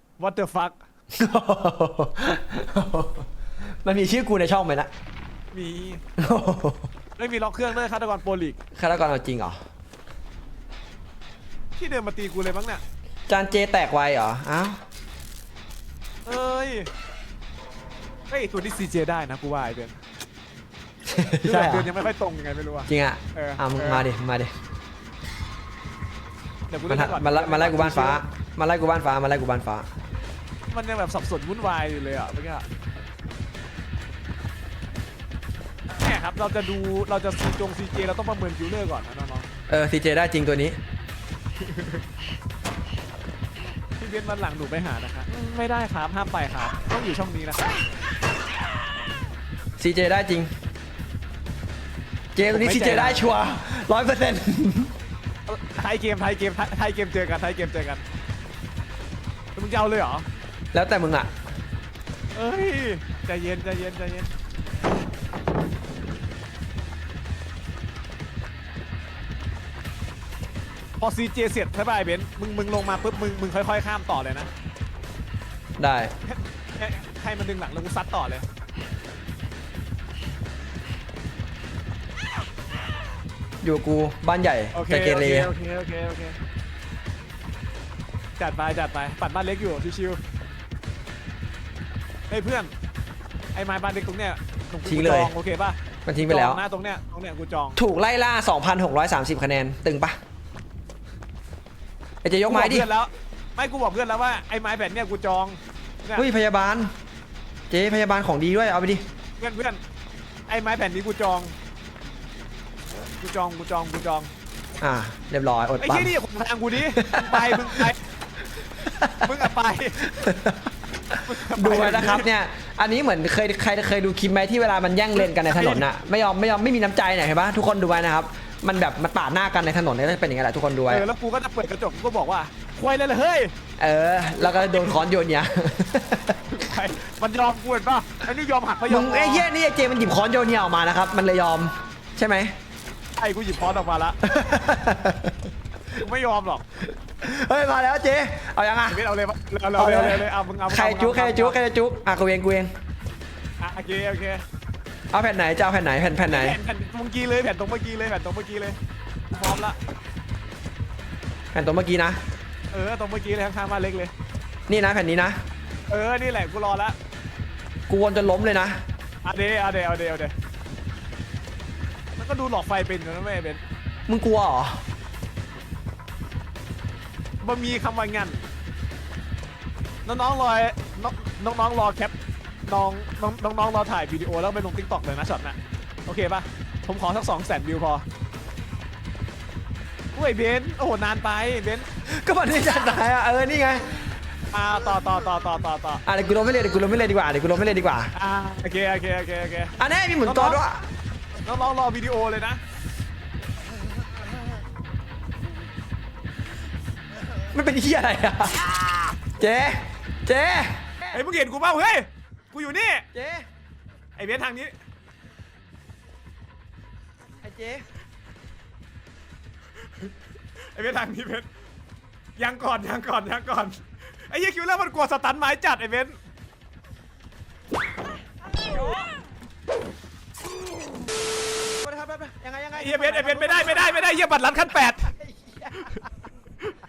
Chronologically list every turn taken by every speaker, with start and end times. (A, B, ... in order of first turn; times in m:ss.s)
0:00.2-0:00.8 A
0:01.1-0:03.3 B
0:03.8-0:04.9 B
0:05.5-0:06.0 A
0:06.2-0:06.9 B
0:07.2-0:08.6 A
0:08.8-0:09.6 B
0:11.8-0:12.8 A
0:13.3-0:14.8 B
0:16.3-0:16.9 A
0:18.3-0:20.0 A
0:21.1-0:21.9 B
0:21.4-0:24.1 A
0:22.9-0:24.5 B
0:26.7-0:28.2 A
0:26.9-0:29.9 B
0:30.7-0:32.7 A
0:36.0-0:39.5 A
0:39.7-0:40.8 B
0:41.6-0:42.0 A
0:44.0-0:47.8 A
0:49.8-0:50.5 B
0:52.4-0:54.9 B
0:52.5-0:53.3 A
0:55.5-0:58.0 A
0:59.6-1:00.2 A
1:00.7-1:01.3 B
1:02.4-1:04.3 A
1:11.0-1:14.5 A
1:15.8-1:16.1 B
1:16.2-1:18.5 A
1:23.6-1:25.5 B
1:24.7-1:26.4 A
1:28.4-1:30.2 A
1:32.3-1:32.7 A
1:33.6-1:35.8 A
1:34.8-1:35.3 B
1:36.1-1:36.6 B
1:36.3-1:37.8 A
1:37.8-1:40.2 B
1:42.2-1:42.9 B
1:42.5-1:46.3 A
1:46.2-1:46.9 B
1:47.7-1:49.0 B
1:49.4-1:49.8 A
1:50.5-1:51.5 A
1:53.2-1:54.3 A
1:54.8-1:56.1 B
1:55.8-1:58.1 A
1:57.0-1:57.9 B
1:58.8-1:59.4 B
1:59.2-2:00.1 A
2:00.0-2:11.0 B
2:01.2-2:02.3 A
2:05.2-2:05.8 A
2:10.9-2:13.5 A
2:13.8-2:16.4 B
2:14.4-2:15.0 A
2:16.5-2:19.5 A
2:18.9-2:22.6 B
2:23.2-2:24.2 A
2:24.2-2:25.5 B
2:26.0-2:26.6 A
2:27.0-2:29.0 B
2:28.9-2:31.6 A
2:29.8-2:32.7 B
2:33.6-2:34.4 A
2:35.1-2:36.6 B
2:36.3-2:38.8 A
2:39.3-2:39.8 A
2:41.5-2:42.2 B
2:42.7-2:44.1 A
2:44.7-2:45.4 B
2:45.9-2:47.0 A
2:47.9-2:48.8 B
2:49.2-2:50.3 A
2:52.2-2:53.6 A
2:54.1-2:54.8 B
2:57.4-2:58.4 A
3:00.0-3:02.2 A
3:02.7-3:08.0 A
3:10.1-3:11.9 A
3:12.1-3:14.2 B
3:14.5-3:16.0 A
3:16.0-3:18.1 B
3:18.2-3:20.6 A
3:19.8-3:20.8 B
3:21.4-3:22.6 A
3:27.5-3:31.2 B
3:31.1-3:33.0 A
3:33.1-3:33.5 B
3:34.2-3:34.8 A
3:37.4-3:37.8 B
3:40.6-3:41.5 A
3:42.4-3:46.2 A
3:51.7-3:54.1 B
3:52.8-3:55.1 A
3:55.0-3:56.1 B